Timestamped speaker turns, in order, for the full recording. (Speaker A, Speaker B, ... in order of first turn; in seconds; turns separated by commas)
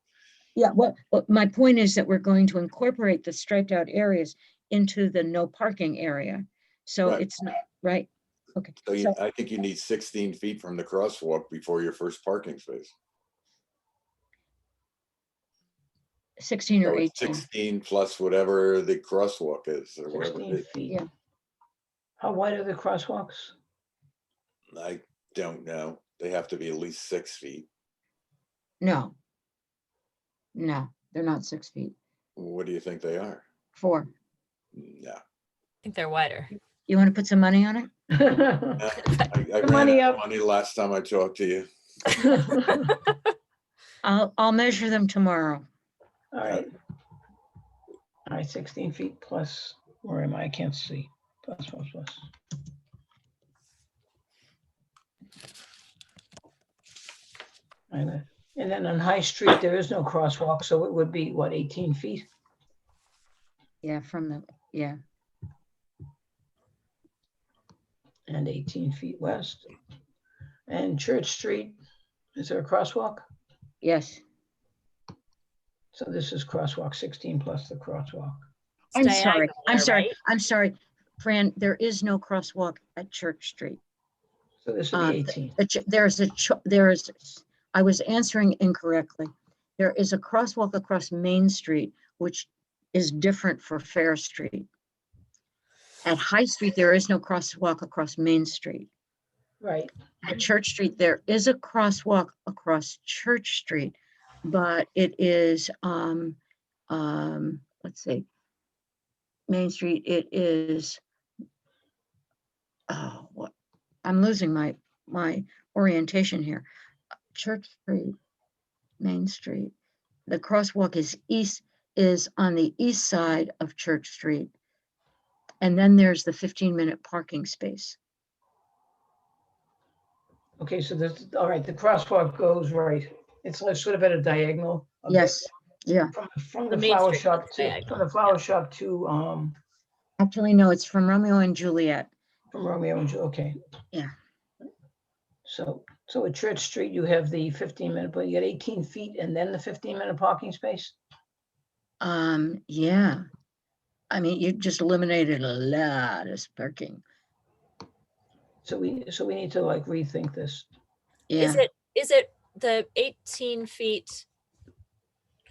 Speaker A: 0.5-9.2, Speaker B: 8.8-12.9, Speaker A: 16.4-17.4, Speaker B: 16.8-20.6, Speaker C: 20.1-21.0, Speaker C: 22.2-23.5, Speaker B: 24.7-27.7, Speaker A: 28.8-29.1, Speaker A: 30.5-31.9, Speaker B: 32.4-33.4, Speaker A: 33.8-34.1, Speaker B: 34.7-35.2, Speaker D: 35.8-36.5, Speaker A: 36.9-37.9, Speaker C: 38.1-38.8, Speaker B: 38.8-41.7, Speaker C: 39.6-40.2, Speaker C: 42.4-42.8, Speaker A: 44.0-45.6, Speaker C: 46.3-46.7, Speaker C: 48.3-52.2, Speaker C: 57.9-62.2, Speaker A: 63.8-65.0, Speaker C: 68.3-69.7, Speaker C: 70.7-71.8, Speaker C: 72.3-73.2, Speaker A: 73.8-74.2, Speaker C: 75.9-78.4, Speaker A: 78.9-83.8, Speaker D: 79.0-80.1, Speaker C: 84.6-85.5, Speaker A: 84.9-94.7, Speaker A: 96.0-98.9, Speaker C: 99.6-99.9, Speaker A: 100.2-106.4, Speaker A: 106.9-108.2, Speaker A: 109.5-111.0, Speaker A: 112.9-113.5, Speaker A: 114.0-116.7, Speaker A: 117.3-118.1, Speaker A: 119.0-119.7, Speaker A: 120.3-124.5, Speaker A: 125.6-128.0, Speaker C: 130.6-135.5, Speaker A: 135.1-136.1, Speaker C: 136.1-139.6, Speaker D: 136.7-138.0, Speaker A: 140.2-142.1, Speaker C: 142.5-143.6, Speaker C: 145.4-151.0, Speaker A: 152.0-153.2, Speaker A: 154.1-157.0, Speaker C: 158.6-160.7, Speaker A: 161.3-161.7, Speaker D: 161.3-164.2